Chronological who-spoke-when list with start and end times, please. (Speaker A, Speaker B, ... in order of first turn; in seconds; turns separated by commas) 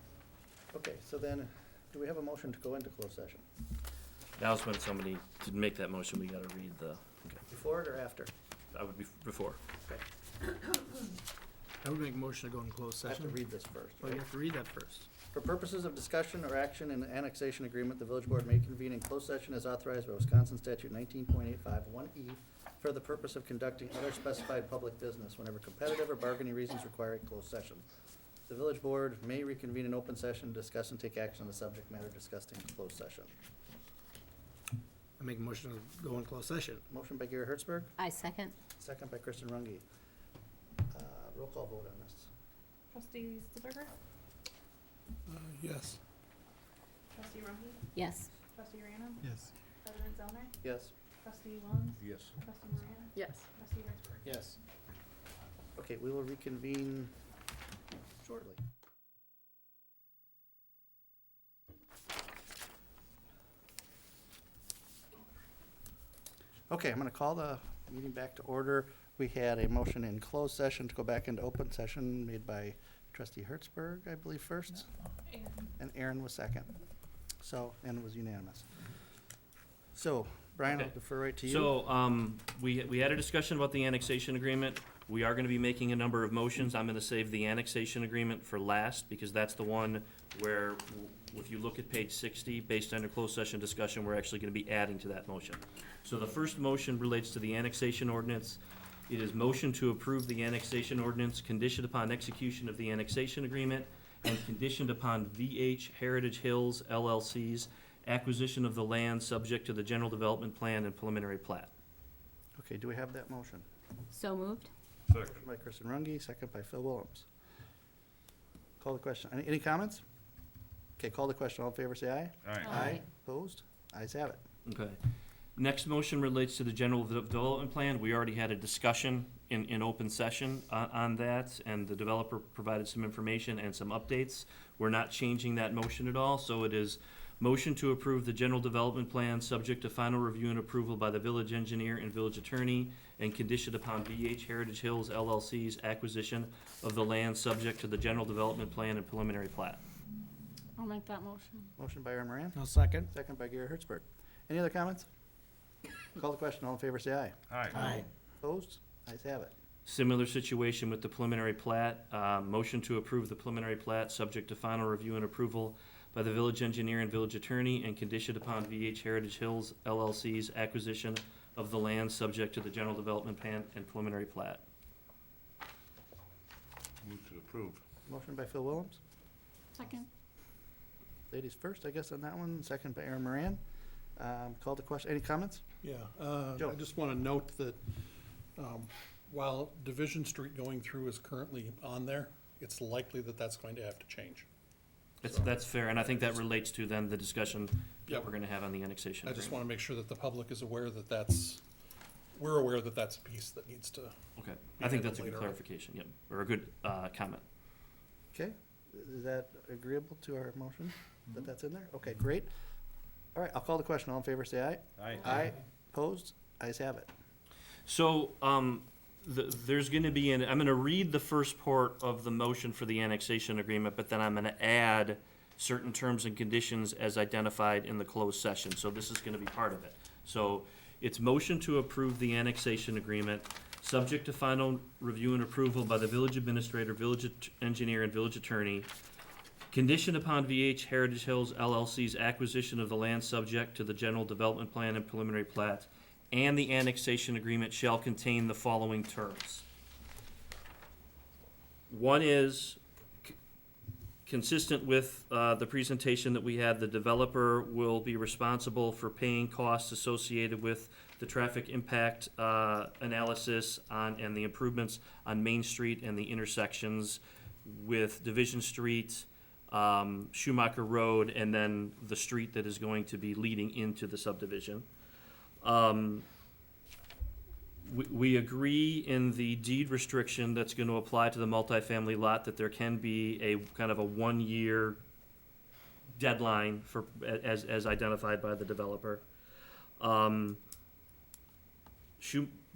Speaker A: 0.7-3.4, Speaker B: 4.4-7.4, Speaker A: 7.5-8.3, Speaker B: 8.7-9.6, Speaker C: 11.8-13.4, Speaker A: 13.1-14.2, Speaker C: 14.0-15.1, Speaker A: 15.3-27.9, Speaker A: 28.5-33.3, Speaker C: 35.2-36.8, Speaker A: 36.9-37.9, Speaker D: 38.0-38.6, Speaker A: 38.8-39.8, Speaker A: 40.9-42.3, Speaker E: 42.9-43.9, Speaker F: 45.3-46.0, Speaker E: 47.1-47.8, Speaker D: 48.0-48.3, Speaker E: 48.5-49.3, Speaker E: 49.8-50.5, Speaker A: 50.6-50.9, Speaker E: 51.2-54.3, Speaker G: 52.0-52.3, Speaker A: 54.2-54.6, Speaker A: 55.8-57.1, Speaker A: 58.2-58.6, Speaker A: 66.7-74.9, Speaker A: 75.8-76.7, Speaker A: 77.4-78.7, Speaker A: 79.9-81.7, Speaker B: 80.7-111.7, Speaker A: 112.6-113.7, Speaker D: 114.1-114.7, Speaker G: 115.1-115.4, Speaker A: 115.2-117.3, Speaker A: 118.8-120.0, Speaker A: 121.0-124.4, Speaker G: 122.4-122.8, Speaker B: 124.7-125.0, Speaker B: 125.6-149.8, Speaker D: 150.8-151.7, Speaker A: 151.8-155.1, Speaker C: 152.6-153.1, Speaker A: 156.2-159.5, Speaker G: 157.5-157.8, Speaker C: 157.8-158.0, Speaker B: 159.9-174.6, Speaker G: 177.0-177.8, Speaker A: 178.1-179.0, Speaker A: 181.3-183.6, Speaker A: 184.2-185.6, Speaker F: 185.8-194.5, Speaker B: 195.2-199.7, Speaker F: 198.1-198.3, Speaker F: 199.2-201.6, Speaker F: 202.3-204.2, Speaker B: 204.4-207.4, Speaker F: 204.8-205.6, Speaker A: 208.3-212.5, Speaker A: 213.3-217.1, Speaker G: 215.0-215.3, Speaker B: 217.9-238.9, Speaker B: 239.7-249.7, Speaker B: 251.9-253.3, Speaker B: 254.3-274.9, Speaker B: 275.6-276.3, Speaker B: 277.9-285.0, Speaker B: 286.2-289.2, Speaker B: 290.0-290.6, Speaker B: 292.2-292.6